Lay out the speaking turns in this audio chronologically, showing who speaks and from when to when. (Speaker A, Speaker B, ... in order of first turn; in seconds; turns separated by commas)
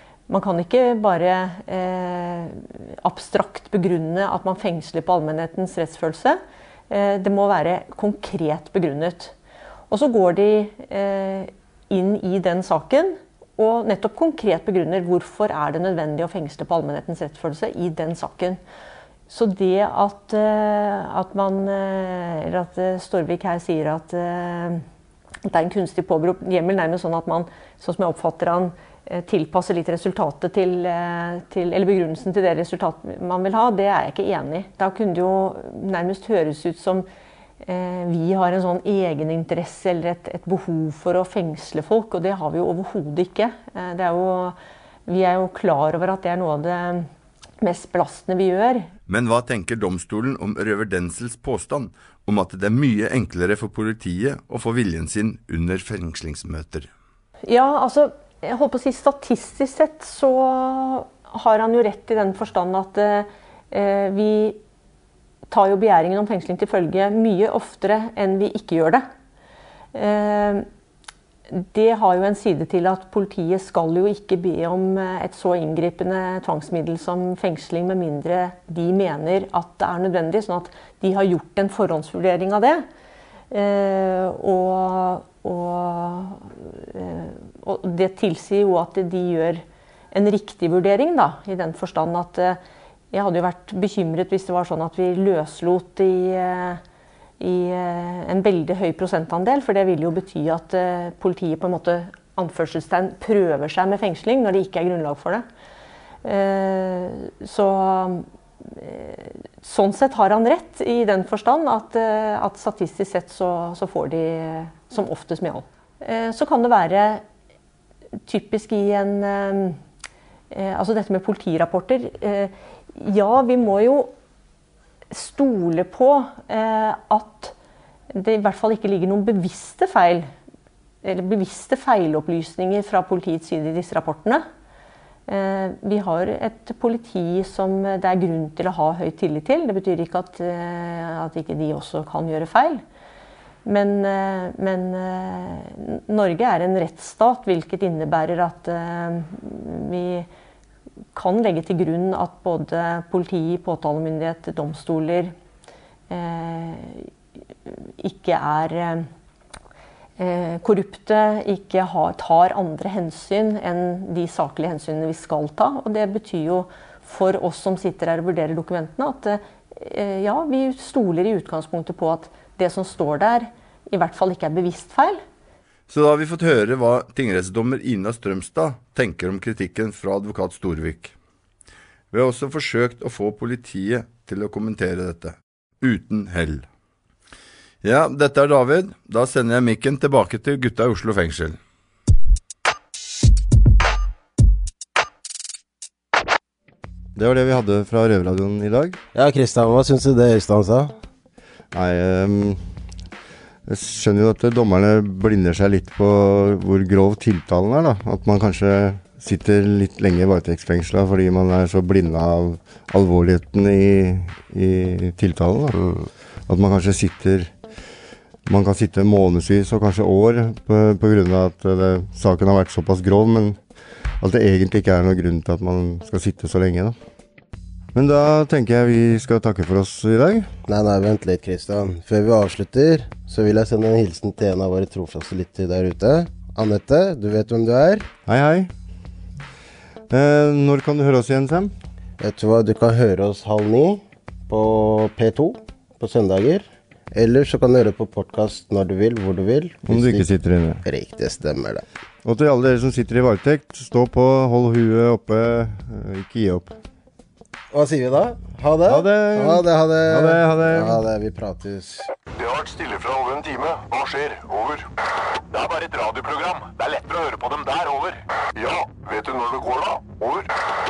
Speaker A: 0.3-6.4, Speaker A: 6.9-9.3, Speaker A: 9.9-18.6, Speaker A: 19.3-24.8, Speaker A: 25.5-37.1, Speaker A: 37.7-44.6, Speaker A: 45.1-47.1, Speaker A: 47.6-48.9, Speaker B: 49.1-56.9, Speaker A: 57.5-64.6, Speaker A: 65.5-69.1, Speaker A: 69.9-70.7, Speaker A: 71.5-82.8, Speaker A: 83.5-92.6, Speaker A: 93.1-96.8, Speaker A: 97.4-105.5, Speaker A: 106.2-117.2, Speaker A: 118.3-119.8, Speaker A: 120.5-124.1, Speaker A: 125.1-127.5, Speaker A: 128.1-130.3, Speaker A: 131.0-134.4, Speaker A: 135.3-142.8, Speaker A: 143.7-150.3, Speaker A: 151.2-155.3, Speaker A: 156.1-157.1, Speaker A: 157.7-159.1, Speaker A: 160.2-175.2, Speaker B: 175.9-181.1, Speaker B: 182.1-186.7, Speaker B: 187.8-191.6, Speaker C: 197.2-199.0, Speaker D: 199.2-200.9, Speaker C: 201.7-202.6, Speaker C: 203.7-215.8, Speaker D: 215.8-216.1, Speaker C: 216.5-217.5, Speaker C: 218.5-223.6, Speaker C: 224.2-227.0, Speaker C: 227.9-230.5, Speaker D: 230.7-238.1, Speaker C: 238.3-238.7, Speaker C: 240.1-241.7, Speaker D: 242.2-250.3, Speaker C: 249.9-250.8, Speaker D: 250.8-251.8, Speaker C: 252.2-256.8, Speaker D: 257.7-262.1, Speaker C: 258.9-261.0, Speaker E: 262.4-264.9, Speaker E: 265.5-270.5